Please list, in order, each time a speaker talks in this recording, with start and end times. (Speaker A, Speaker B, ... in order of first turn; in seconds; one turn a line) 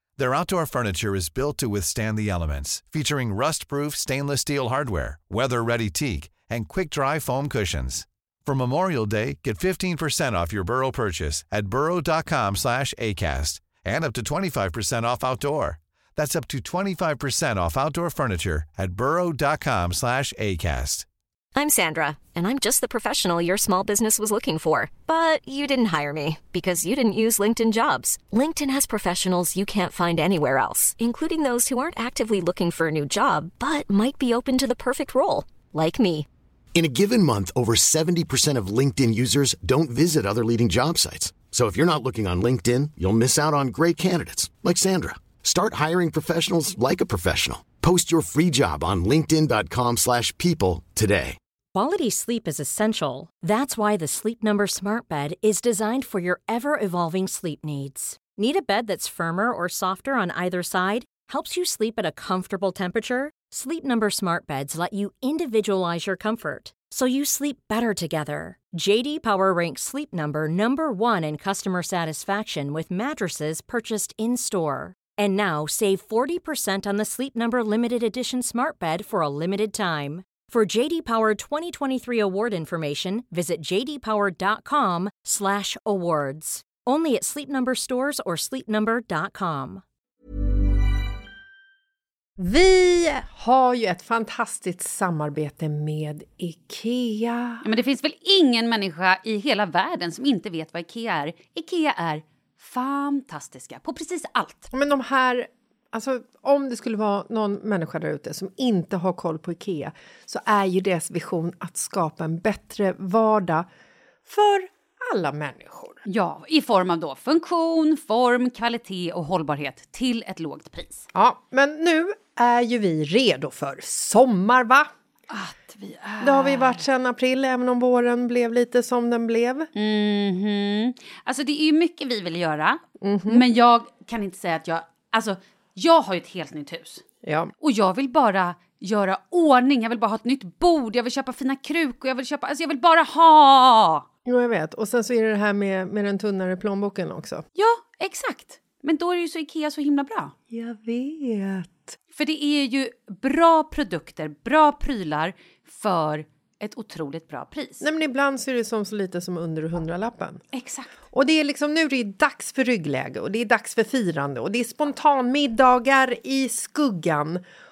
Speaker A: 0.2-21.1
Speaker B: 21.5-36.2
Speaker C: 36.8-51.4
Speaker D: 51.7-89.8
Speaker E: 92.4-97.6
Speaker F: 97.6-104.7
Speaker E: 104.7-113.7
Speaker E: 114.3-116.0
Speaker F: 116.0-121.0
Speaker E: 121.1-124.9
Speaker F: 125.3-126.8
Speaker E: 126.2-129.7
Speaker F: 129.7-137.0
Speaker E: 133.0-133.4
Speaker E: 137.2-137.5
Speaker F: 137.6-144.0
Speaker E: 144.2-147.4
Speaker F: 147.6-150.3
Speaker E: 150.5-151.9
Speaker F: 152.1-157.8
Speaker E: 157.8-160.4
Speaker F: 160.5-160.9
Speaker E: 161.1-167.4